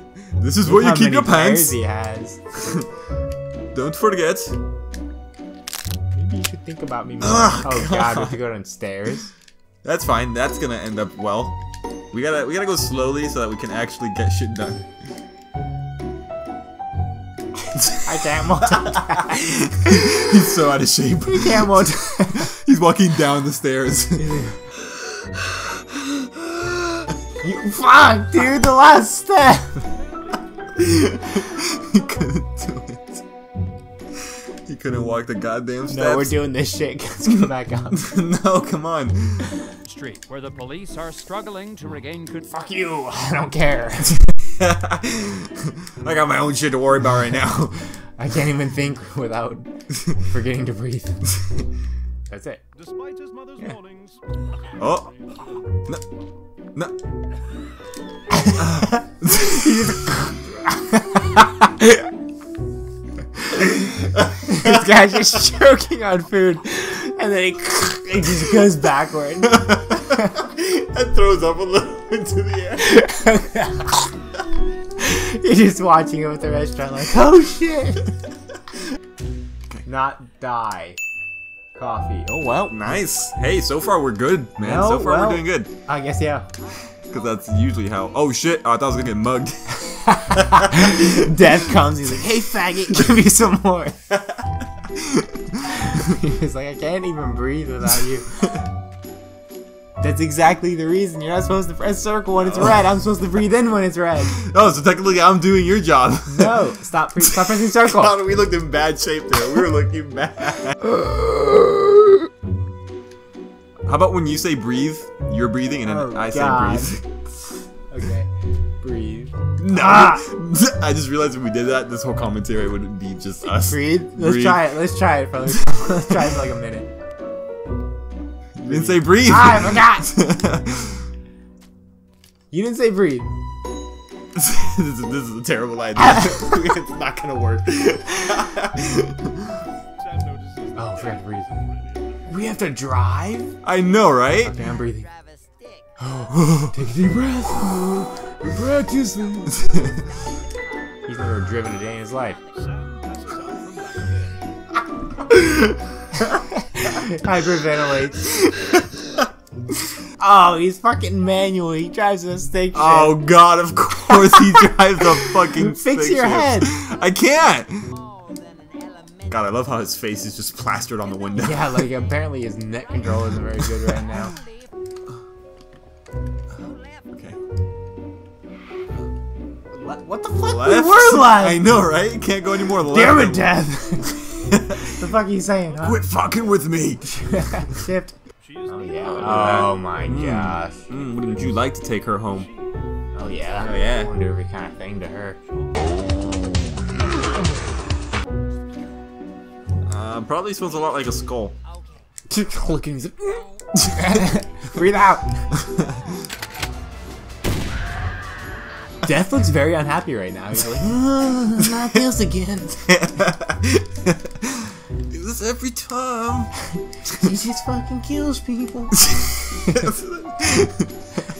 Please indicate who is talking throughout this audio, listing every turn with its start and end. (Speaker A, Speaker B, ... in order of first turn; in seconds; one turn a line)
Speaker A: 0.4-1.8
Speaker B: 0.6-2.4
Speaker A: 3.7-4.5
Speaker B: 6.1-9.3
Speaker A: 7.2-8.4
Speaker A: 9.8-11.6
Speaker A: 12.1-14.9
Speaker B: 17.9-19.4
Speaker A: 19.3-24.3
Speaker B: 21.2-22.5
Speaker B: 24.2-24.6
Speaker B: 27.4-29.8
Speaker A: 30.8-33.2
Speaker A: 34.7-36.5
Speaker B: 35.9-38.1
Speaker A: 37.9-39.5
Speaker C: 39.8-42.5
Speaker B: 42.4-44.2
Speaker A: 44.6-47.9
Speaker B: 48.2-51.3
Speaker B: 52.3-52.6
Speaker D: 52.8-54.2
Speaker A: 54.8-55.1
Speaker B: 58.3-61.0
Speaker A: 58.6-59.9
Speaker B: 61.6-62.0
Speaker B: 63.5-70.3
Speaker A: 69.6-72.9
Speaker B: 72.8-74.1
Speaker B: 75.0-78.1
Speaker B: 79.8-81.0
Speaker B: 81.7-82.9
Speaker A: 82.7-85.7
Speaker B: 84.6-86.5
Speaker A: 87.1-89.8
Speaker B: 89.9-94.0
Speaker A: 90.3-91.5
Speaker B: 95.7-98.6
Speaker B: 100.0-104.4
Speaker A: 102.4-102.8
Speaker A: 104.3-106.6
Speaker B: 106.3-108.2
Speaker A: 107.2-110.8
Speaker A: 113.8-117.0
Speaker B: 115.8-117.0
Speaker B: 117.9-118.3
Speaker B: 118.8-120.2
Speaker A: 119.6-124.8
Speaker B: 123.5-126.9
Speaker A: 125.5-126.3
Speaker A: 128.6-131.1
Speaker B: 128.7-130.1
Speaker B: 132.5-133.3
Speaker A: 134.3-139.4
Speaker D: 140.2-140.7
Speaker B: 140.7-141.7
Speaker B: 142.2-143.5
Speaker A: 143.6-144.7
Speaker B: 144.4-145.1
Speaker E: 144.9-145.8
Speaker B: 146.0-149.6
Speaker A: 146.3-146.7
Speaker B: 151.1-152.4
Speaker D: 152.7-154.3
Speaker B: 156.2-158.3
Speaker B: 160.2-163.3
Speaker A: 162.7-167.8
Speaker B: 164.1-166.7
Speaker E: 167.9-169.4
Speaker A: 169.3-171.9
Speaker E: 171.3-171.6
Speaker B: 171.3-174.3
Speaker A: 173.9-174.2
Speaker A: 177.1-177.4
Speaker B: 179.7-181.7
Speaker A: 180.4-183.6
Speaker B: 182.8-184.1
Speaker B: 184.8-186.0
Speaker A: 185.8-187.6
Speaker B: 187.3-188.1
Speaker B: 188.7-190.8
Speaker A: 189.1-192.5
Speaker B: 193.1-195.4
Speaker A: 193.6-194.1
Speaker A: 199.9-201.6
Speaker B: 202.3-205.4
Speaker B: 209.0-212.9
Speaker A: 212.9-214.5
Speaker A: 215.1-216.5
Speaker B: 217.1-219.1
Speaker A: 219.0-220.9